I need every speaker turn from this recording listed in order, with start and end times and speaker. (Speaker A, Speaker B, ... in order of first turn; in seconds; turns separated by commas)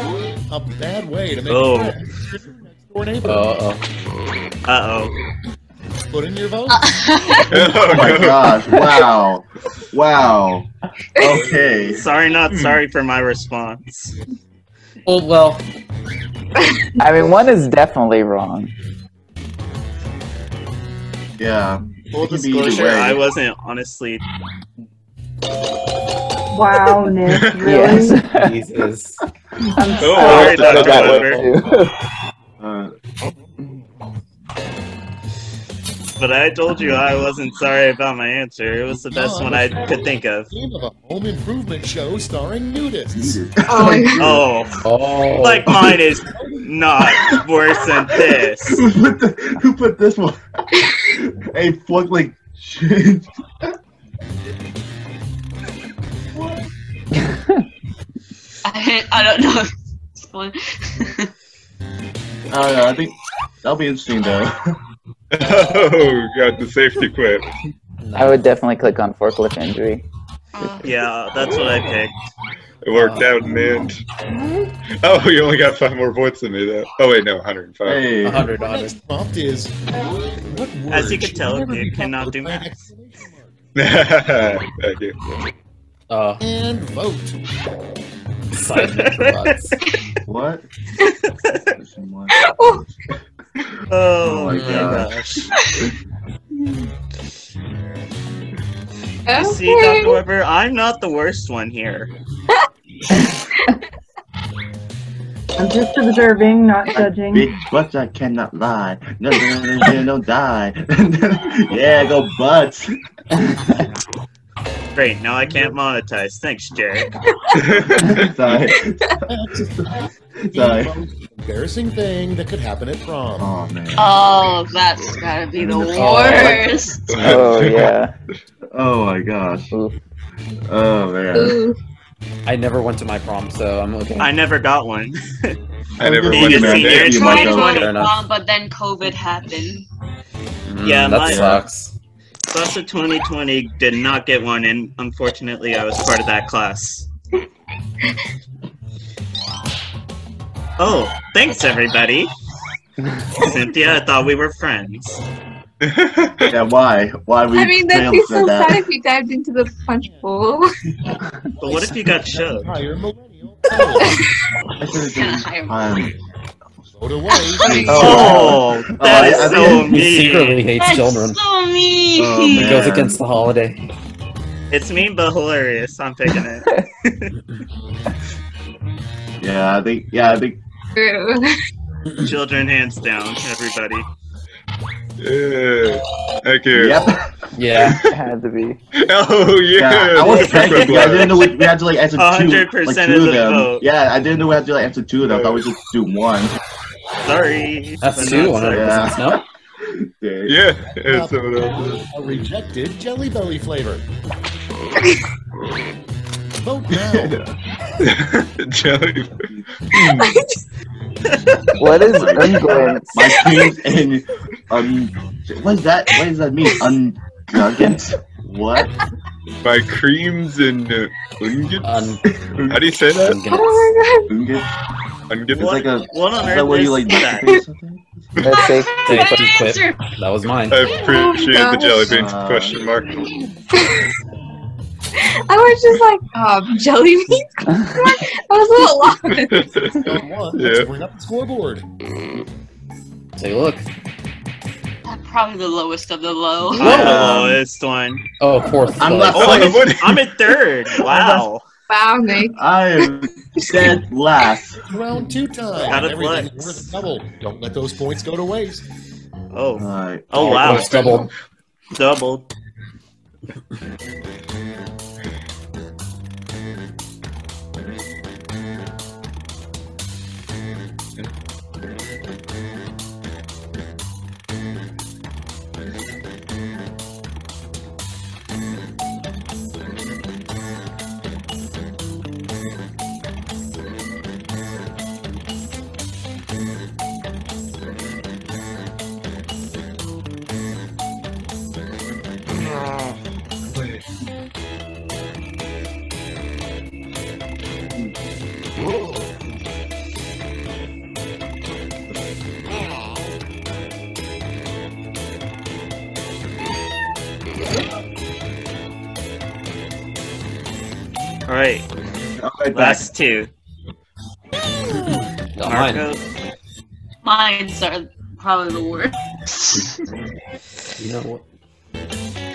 Speaker A: 0.5-3.7, Speaker B: 1.5-1.9, Speaker C: 3.2-3.8, Speaker B: 4.7-5.1, Speaker A: 6.1-7.1, Speaker D: 6.7-7.4, Speaker E: 7.4-8.6, Speaker F: 7.8-12.1, Speaker B: 11.9-14.1, Speaker E: 12.5-12.8, Speaker C: 15.1-15.7, Speaker G: 17.0-18.7, Speaker F: 21.4-23.2, Speaker B: 22.1-24.2, Speaker H: 26.5-28.2, Speaker E: 27.2-27.7, Speaker G: 27.6-28.6, Speaker C: 28.3-29.2, Speaker G: 29.7-31.9, Speaker E: 29.9-31.4, Speaker B: 30.0-31.4, Speaker F: 32.6-32.9, Speaker B: 36.2-40.5, Speaker A: 38.9-44.0, Speaker F: 43.1-44.5, Speaker I: 43.6-44.2, Speaker B: 44.2-44.8, Speaker C: 44.8-45.7, Speaker B: 45.4-48.8, Speaker F: 45.7-46.1, Speaker F: 48.0-53.3, Speaker D: 58.6-61.3, Speaker F: 62.5-64.7, Speaker E: 65.3-67.5, Speaker C: 68.0-68.4, Speaker G: 68.1-70.0, Speaker D: 70.5-71.1, Speaker B: 70.8-72.1, Speaker E: 72.8-74.0, Speaker C: 72.9-73.2, Speaker E: 75.0-78.1, Speaker F: 77.8-78.5, Speaker C: 78.2-79.0, Speaker A: 78.4-79.7, Speaker A: 80.5-83.6, Speaker B: 80.9-82.7, Speaker E: 83.7-85.1, Speaker C: 86.1-86.4, Speaker A: 86.4-87.4, Speaker C: 88.5-89.8, Speaker B: 88.8-89.7, Speaker F: 90.2-90.6, Speaker B: 91.4-91.7, Speaker F: 91.7-92.3, Speaker I: 92.3-92.8, Speaker B: 93.9-95.5, Speaker F: 94.2-95.1, Speaker C: 94.5-95.1, Speaker I: 99.2-100.2, Speaker B: 99.4-102.1, Speaker H: 105.6-107.6, Speaker F: 106.9-112.9, Speaker B: 114.9-117.1, Speaker E: 117.5-118.5, Speaker F: 117.8-119.9, Speaker F: 120.5-120.9, Speaker A: 120.5-123.5, Speaker F: 123.4-124.2, Speaker D: 124.0-127.1, Speaker F: 125.6-126.0, Speaker C: 126.0-126.6, Speaker G: 126.0-128.1, Speaker E: 127.1-128.0, Speaker F: 128.7-129.7, Speaker F: 130.7-131.6, Speaker I: 131.3-131.8, Speaker C: 132.4-134.3, Speaker B: 134.2-135.6, Speaker F: 136.0-137.9, Speaker E: 136.0-137.3, Speaker B: 136.3-137.8, Speaker D: 137.2-139.8, Speaker C: 137.7-138.2, Speaker C: 140.7-141.9, Speaker B: 140.8-141.5, Speaker F: 141.2-141.6, Speaker B: 142.5-147.1, Speaker B: 150.8-152.3, Speaker B: 153.4-155.2, Speaker E: 155.8-156.6, Speaker F: 156.4-158.8, Speaker I: 157.5-160.7, Speaker A: 161.6-164.2, Speaker B: 161.6-162.7, Speaker F: 164.8-166.1, Speaker D: 165.0-166.0, Speaker A: 166.8-168.0, Speaker I: 167.3-168.5, Speaker F: 167.6-170.0, Speaker B: 167.9-170.6, Speaker G: 168.0-168.5, Speaker D: 169.2-169.5, Speaker C: 169.6-171.4, Speaker D: 170.8-172.8, Speaker F: 172.1-173.2, Speaker C: 172.5-173.8, Speaker B: 174.7-177.3, Speaker F: 179.4-180.6, Speaker I: 180.9-181.6, Speaker B: 182.2-184.1, Speaker E: 185.2-187.1, Speaker F: 186.7-187.3, Speaker C: 187.5-188.0, Speaker E: 187.8-188.2, Speaker G: 188.1-188.8, Speaker E: 188.9-191.4, Speaker F: 189.7-196.5, Speaker B: 190.2-193.8, Speaker E: 195.3-195.7, Speaker B: 197.2-199.1, Speaker C: 198.0-199.4, Speaker F: 198.7-200.6, Speaker E: 200.4-202.0, Speaker A: 201.0-201.3, Speaker A: 201.9-204.1, Speaker A: 206.6-207.4, Speaker F: 206.9-207.5, Speaker E: 208.0-210.4, Speaker I: 210.0-210.6, Speaker F: 211.8-218.9, Speaker G: 211.8-213.3, Speaker E: 219.6-222.0, Speaker C: 221.8-222.2, Speaker F: 222.5-222.9, Speaker E: 222.7-223.4, Speaker C: 223.2-223.9, Speaker I: 223.5-224.3, Speaker F: 224.3-224.7, Speaker E: 225.3-225.8, Speaker F: 225.5-228.0, Speaker B: 225.5-227.5, Speaker E: 228.3-228.7, Speaker G: 228.4-229.4, Speaker D: 228.9-230.0, Speaker C: 229.0-230.8, Speaker E: 230.7-233.3, Speaker I: 230.9-232.1, Speaker F: 232.0-232.9, Speaker I: 233.7-234.1, Speaker I: 235.5-239.7, Speaker E: 239.3-240.9, Speaker A: 239.9-241.8, Speaker C: 243.4-243.8, Speaker D: 245.0-247.0, Speaker B: 246.7-248.2, Speaker C: 246.8-247.3, Speaker F: 246.8-247.6, Speaker C: 248.4-249.5, Speaker F: 249.0-249.9, Speaker B: 249.3-251.6, Speaker E: 249.3-250.3, Speaker F: 251.0-251.5, Speaker I: 251.9-252.6, Speaker F: 252.5-254.8, Speaker I: 253.6-253.9, Speaker A: 254.8-258.8, Speaker B: 255.8-256.9, Speaker B: 259.5-261.2, Speaker F: 259.8-260.5, Speaker C: 260.4-261.3, Speaker E: 260.5-260.9, Speaker B: 261.9-262.5, Speaker B: 311.5-311.9, Speaker F: 312.4-313.1, Speaker B: 312.7-313.5, Speaker C: 315.1-316.1, Speaker B: 315.6-316.2, Speaker D: 317.2-319.9, Speaker C: 321.0-321.4